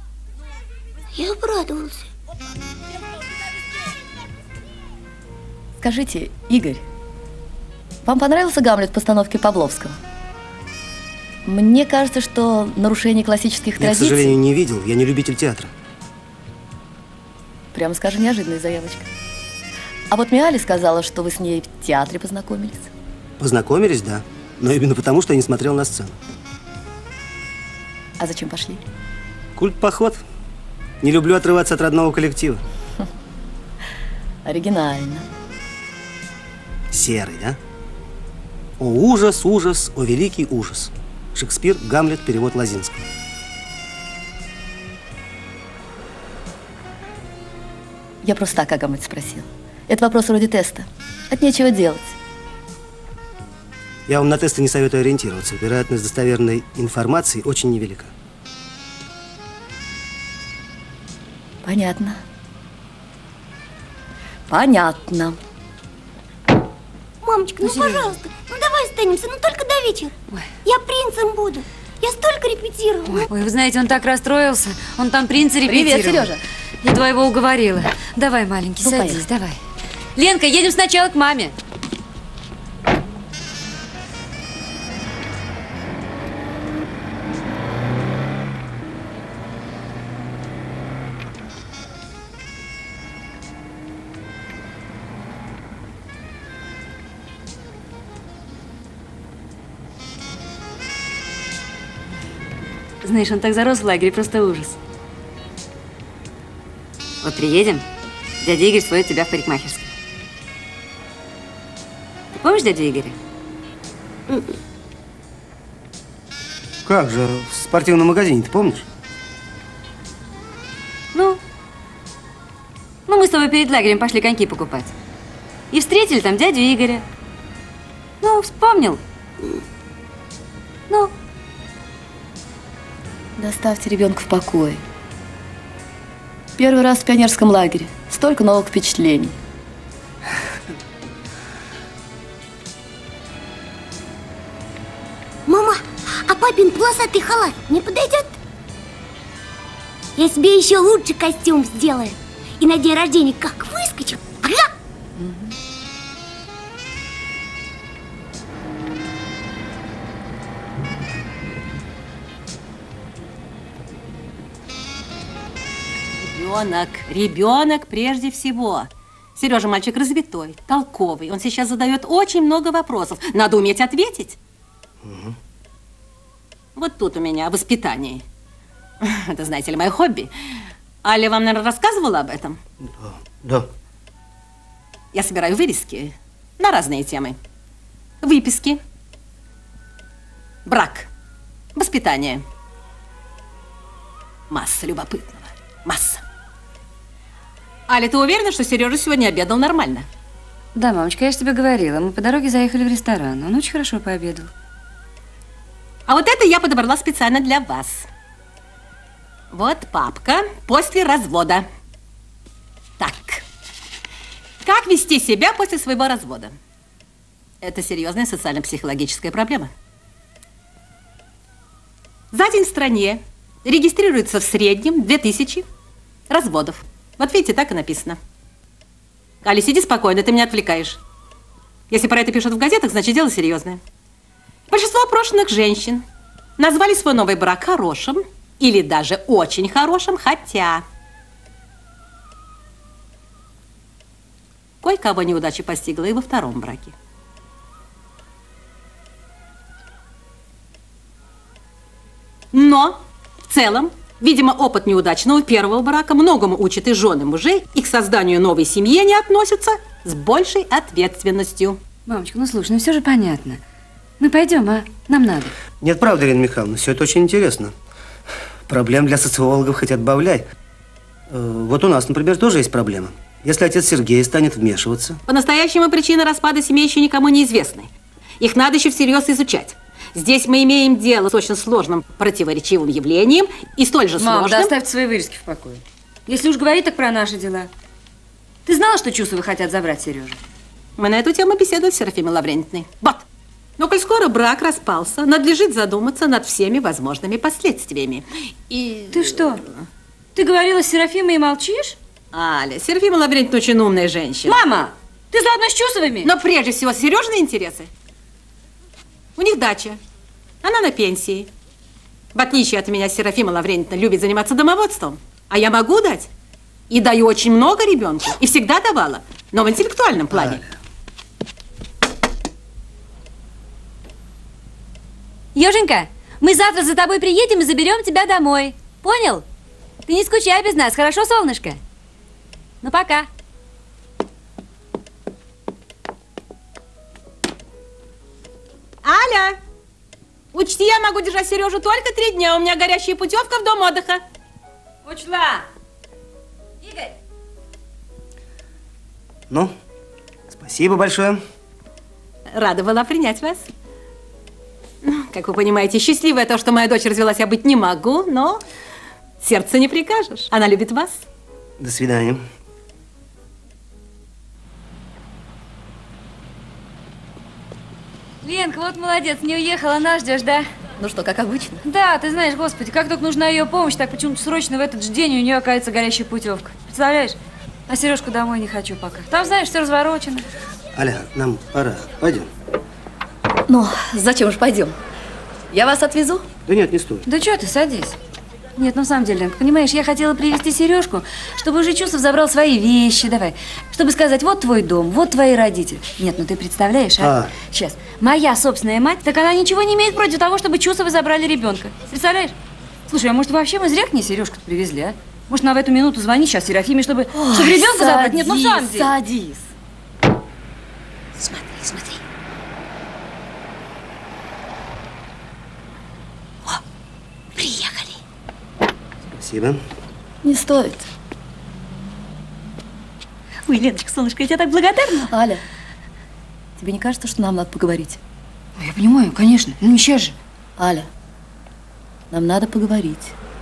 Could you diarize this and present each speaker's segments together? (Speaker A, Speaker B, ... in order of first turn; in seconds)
Speaker A: 1.1-2.1, 67.2-70.1, 70.6-73.3, 145.4-148.3, 150.2-154.7
Speaker B: 5.8-6.8, 8.0-10.0, 11.4-14.4, 17.7-19.1, 20.1-22.9, 28.2-28.8, 34.4-35.3, 48.2-52.1, 61.6-62.2, 64.5-65.4, 75.6-76.4, 78.8-79.3, 133.4-134.8, 136.6-139.3, 371.0-371.8, 383.7-385.0, 385.7-386.5, 407.3-409.7, 420.4-421.1, 425.3-425.6, 426.8-428.2, 430.8-431.1, 432.3-433.3
Speaker C: 13.8-15.7, 23.4-26.1, 29.6-30.2, 31.0-32.6, 36.9-37.6, 38.8-43.0, 54.1-58.1, 116.8-118.8, 175.0-175.3, 182.8-183.7, 265.8-267.7, 268.7-270.5, 271.3-275.2, 320.3-320.6, 350.5-351.4, 361.8-362.4, 380.9-382.5, 386.6-387.3, 397.2-397.5, 419.3-419.8
Speaker D: 67.6-68.0, 73.1-76.3, 76.8-79.6, 80.2-81.5, 103.0-104.8, 107.2-107.8, 108.4-109.9, 112.4-113.2, 121.1-121.4, 123.1-124.9, 125.7-127.0, 128.2-129.0, 200.7-204.5, 262.1-263.6, 264.2-265.5, 284.2-287.7, 288.6-290.4, 299.1-299.6, 300.3-302.0, 304.4-306.3, 325.5-329.4, 330.1-331.8, 332.8-333.3, 345.1-345.6, 346.8-347.1, 368.4-370.6, 371.8-377.4, 377.9-380.5, 387.2-388.1, 388.8-402.5, 403.1-409.1, 423.6-425.3, 428.8-430.3
Speaker E: 166.2-174.4, 176.8-178.2, 179.0-182.6, 185.1-187.4, 188.2-188.8, 190.7-191.1, 191.7-192.4, 194.5-196.2, 197.9-200.1, 206.1-208.1, 209.5-211.7, 213.0-213.4, 214.6-216.6, 217.6-219.7, 222.3-225.7, 226.3-228.2, 229.4-231.0, 231.9-233.8, 234.7-236.0, 236.6-240.8, 244.8-246.9, 252.5-261.8, 275.3-284.7, 291.0-293.2, 293.8-299.6, 302.3-304.6, 306.2-307.9, 309.4-310.0, 310.6-311.5, 312.3-316.3, 316.9-320.6, 339.0-339.6, 340.5-344.2, 352.5-353.7, 355.0-358.6, 359.4-361.2